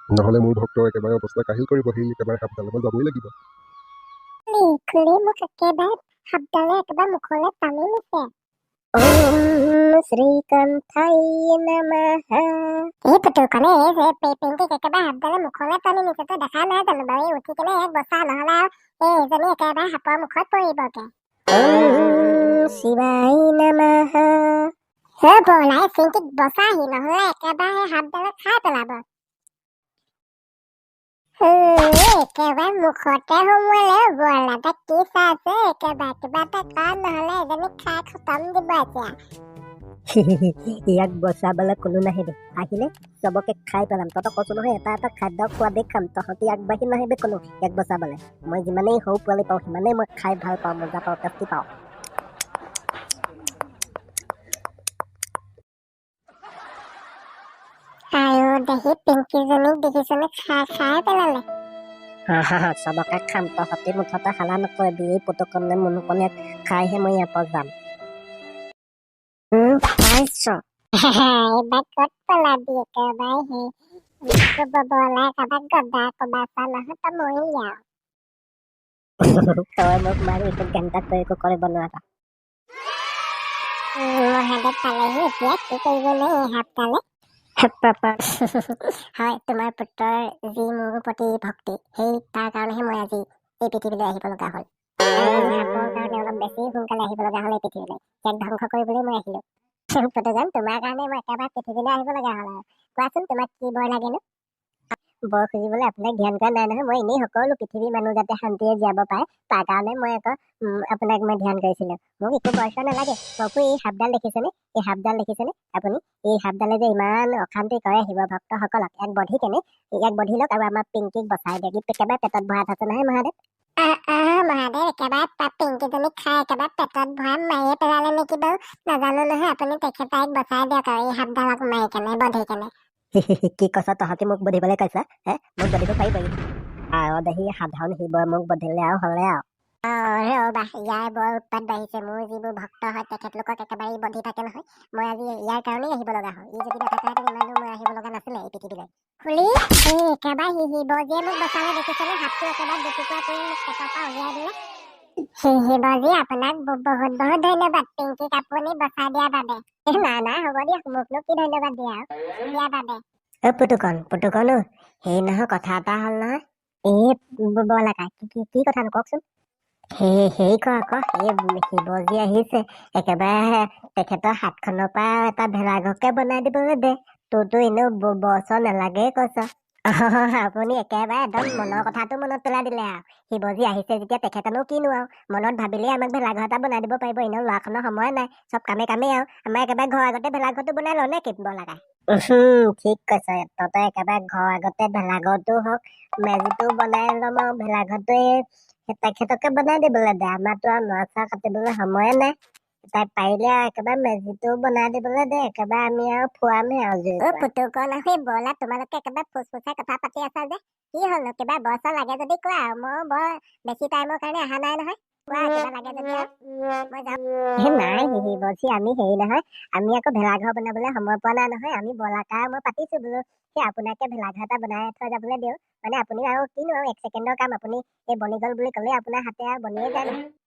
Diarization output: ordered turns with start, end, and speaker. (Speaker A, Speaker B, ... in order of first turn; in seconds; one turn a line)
Speaker A: 0.2-3.3
Speaker B: 4.5-8.3
Speaker C: 9.0-12.9
Speaker B: 13.1-21.1
Speaker C: 21.5-24.7
Speaker B: 25.2-29.0
Speaker B: 31.4-39.1
Speaker C: 40.1-51.6
Speaker B: 58.1-61.5
Speaker C: 62.3-67.7
Speaker C: 69.5-70.6
Speaker B: 71.0-73.7
Speaker B: 74.2-77.8
Speaker C: 79.2-82.0
Speaker B: 84.0-87.0
Speaker C: 87.6-88.2
Speaker B: 88.4-94.7
Speaker B: 95.2-99.4
Speaker B: 100.0-104.2
Speaker C: 105.3-123.3
Speaker B: 123.8-132.7
Speaker C: 133.2-136.3
Speaker C: 136.9-139.4
Speaker B: 139.8-154.5
Speaker B: 155.4-159.9
Speaker C: 159.9-160.5
Speaker B: 160.4-163.0
Speaker C: 163.4-169.2
Speaker C: 170.0-198.3
Speaker C: 198.9-202.3
Speaker C: 202.9-207.5
Speaker B: 207.2-216.3
Speaker B: 216.9-217.2
Speaker C: 217.6-230.2